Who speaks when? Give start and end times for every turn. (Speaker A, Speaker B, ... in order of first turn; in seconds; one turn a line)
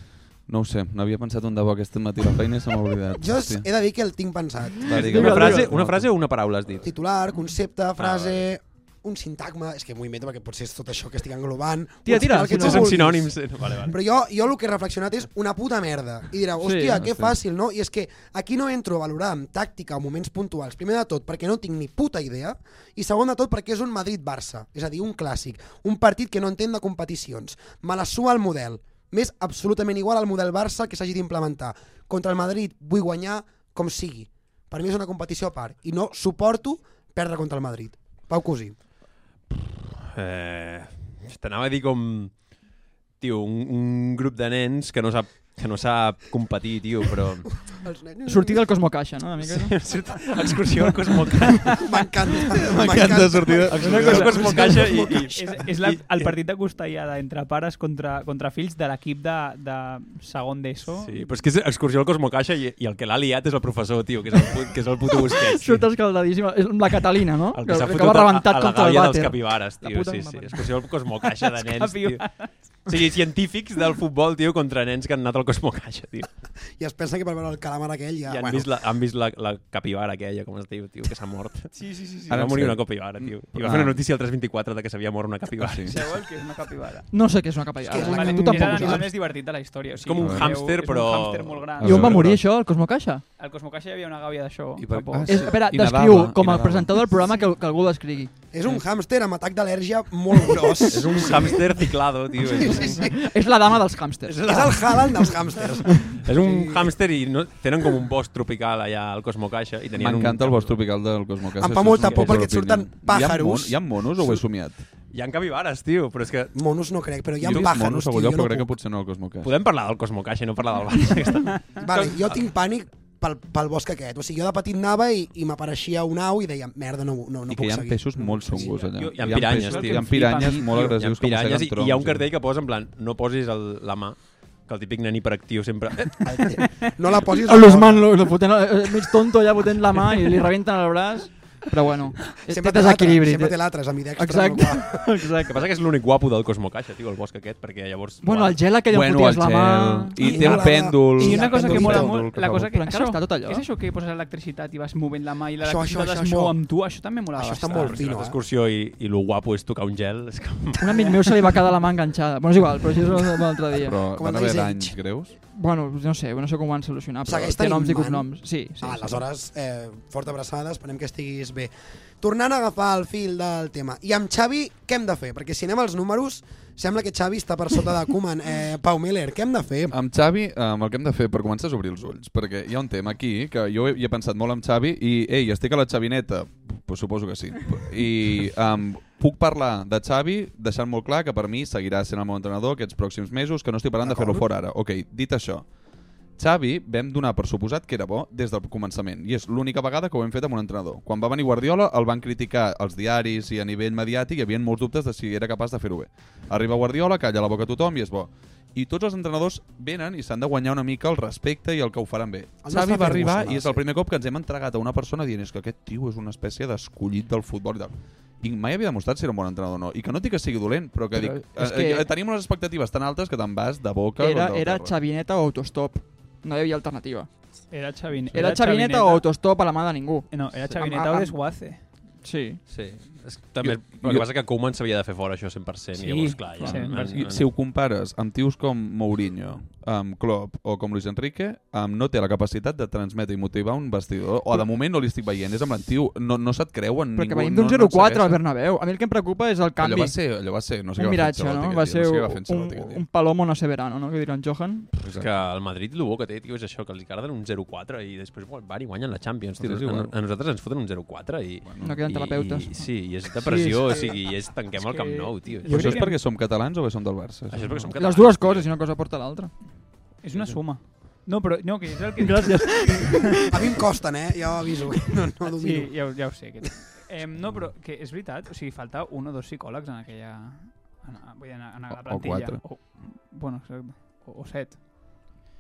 Speaker A: 0.5-3.7
Speaker B: 3.2-5.4
Speaker A: 4.8-6.1
Speaker C: 4.9-7.0
Speaker D: 5.0-5.7
Speaker B: 6.8-38.8
Speaker C: 8.0-8.5
Speaker D: 12.1-12.9
Speaker C: 12.5-14.0
Speaker D: 16.6-17.0
Speaker A: 17.0-17.4
Speaker C: 39.6-42.5
Speaker C: 43.2-47.5
Speaker B: 47.7-48.6
Speaker D: 48.2-49.8
Speaker C: 49.5-51.8
Speaker B: 51.8-55.6
Speaker A: 52.6-54.5
Speaker C: 53.7-56.3
Speaker E: 53.8-61.2
Speaker C: 61.0-65.8
Speaker D: 65.3-70.7
Speaker C: 67.5-76.3
Speaker E: 71.6-72.5
Speaker B: 76.8-78.7
Speaker C: 78.3-86.0
Speaker E: 81.7-82.4
Speaker A: 82.3-84.0
Speaker A: 85.6-86.0
Speaker E: 85.9-87.3
Speaker D: 87.1-89.0
Speaker B: 87.9-89.0
Speaker E: 87.9-92.2
Speaker C: 88.5-88.7
Speaker C: 90.0-92.1
Speaker A: 90.2-90.6
Speaker A: 91.8-92.4
Speaker D: 91.8-93.2
Speaker E: 93.4-95.5
Speaker C: 94.8-95.3
Speaker A: 95.0-97.1
Speaker D: 95.3-98.3
Speaker B: 98.5-101.8
Speaker C: 100.9-103.1
Speaker B: 102.4-103.2
Speaker D: 102.7-104.4
Speaker C: 104.3-110.8
Speaker B: 104.4-106.9
Speaker A: 110.0-114.8
Speaker B: 111.6-114.4
Speaker C: 112.0-112.5
Speaker C: 115.1-116.5
Speaker B: 116.5-118.7
Speaker A: 117.4-119.5
Speaker C: 119.4-122.2
Speaker E: 121.5-121.9
Speaker B: 121.8-128.9
Speaker A: 127.5-132.3
Speaker E: 128.6-130.7
Speaker C: 129.1-136.5
Speaker B: 136.2-138.2
Speaker D: 137.4-145.6
Speaker B: 142.5-145.1
Speaker C: 145.5-148.6
Speaker D: 148.2-150.2
Speaker A: 148.9-152.7
Speaker B: 150.2-152.2
Speaker E: 150.3-158.1
Speaker D: 152.7-153.7
Speaker B: 155.6-156.6
Speaker B: 157.3-158.4
Speaker C: 157.7-160.8
Speaker D: 160.8-164.0
Speaker A: 163.8-165.3
Speaker B: 164.1-165.0
Speaker D: 165.5-169.2
Speaker B: 167.2-179.9
Speaker A: 179.9-195.7
Speaker B: 194.0-194.5
Speaker A: 196.4-224.9
Speaker B: 212.6-213.8
Speaker D: 221.1-222.1
Speaker D: 224.2-227.4
Speaker E: 227.7-229.3
Speaker D: 228.3-231.4
Speaker E: 230.3-231.8
Speaker D: 232.2-232.6
Speaker C: 232.7-237.4
Speaker A: 233.6-234.3
Speaker E: 235.9-237.2
Speaker A: 236.6-248.4
Speaker D: 247.2-250.2
Speaker A: 249.8-253.0
Speaker D: 250.9-254.9
Speaker A: 255.0-255.4
Speaker C: 255.1-266.0
Speaker A: 259.6-260.1
Speaker A: 261.6-262.1
Speaker D: 261.8-266.1
Speaker E: 265.0-266.1
Speaker A: 265.7-267.9
Speaker C: 267.5-268.7
Speaker D: 268.0-269.5
Speaker E: 270.2-273.5
Speaker C: 270.3-270.6
Speaker D: 272.2-273.5
Speaker B: 273.5-276.1
Speaker E: 275.5-284.8
Speaker A: 281.9-282.6